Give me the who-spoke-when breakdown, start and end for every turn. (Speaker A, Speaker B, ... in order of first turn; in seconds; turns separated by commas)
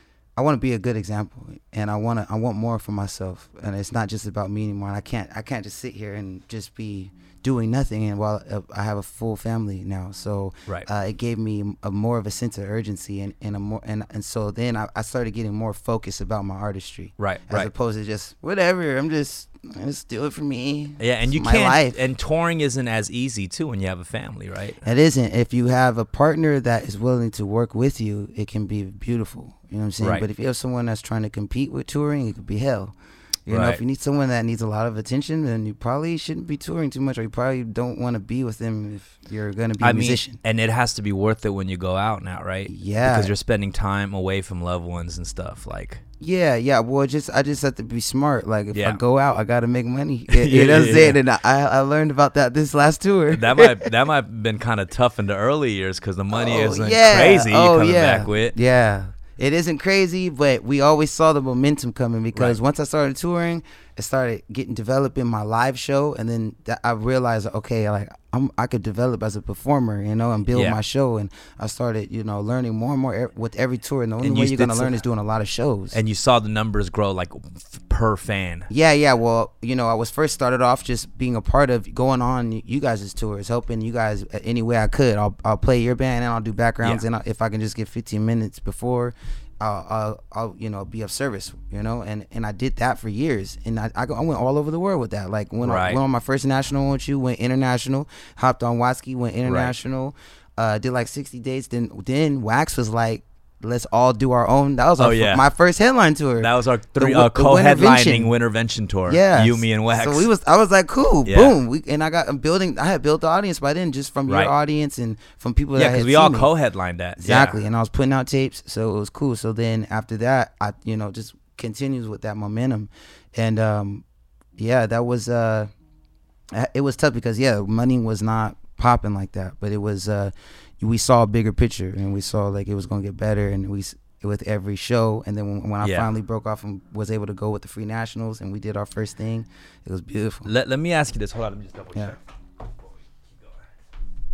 Speaker A: 0.4-21.9, Speaker B: 17.2-17.7, Speaker B: 21.0-24.8, Speaker A: 24.8-32.9, Speaker B: 30.0-30.2, Speaker A: 33.5-40.4, Speaker B: 33.5-33.8, Speaker B: 39.8-46.0, Speaker A: 42.7-43.3, Speaker A: 46.2-53.9, Speaker B: 48.7-49.0, Speaker B: 50.3-51.2, Speaker B: 53.3-58.5, Speaker A: 56.3-76.0, Speaker B: 70.5-70.8, Speaker B: 74.2-75.0, Speaker B: 75.9-78.7, Speaker A: 78.7-108.3, Speaker B: 95.6-96.0, Speaker B: 99.4-99.7, Speaker B: 105.0-105.4, Speaker B: 106.4-110.3, Speaker A: 109.1-116.5, Speaker B: 111.2-111.5, Speaker B: 115.8-117.6, Speaker A: 117.2-124.0, Speaker A: 124.6-125.7, Speaker A: 126.5-140.5, Speaker B: 135.8-136.1, Speaker B: 140.4-143.6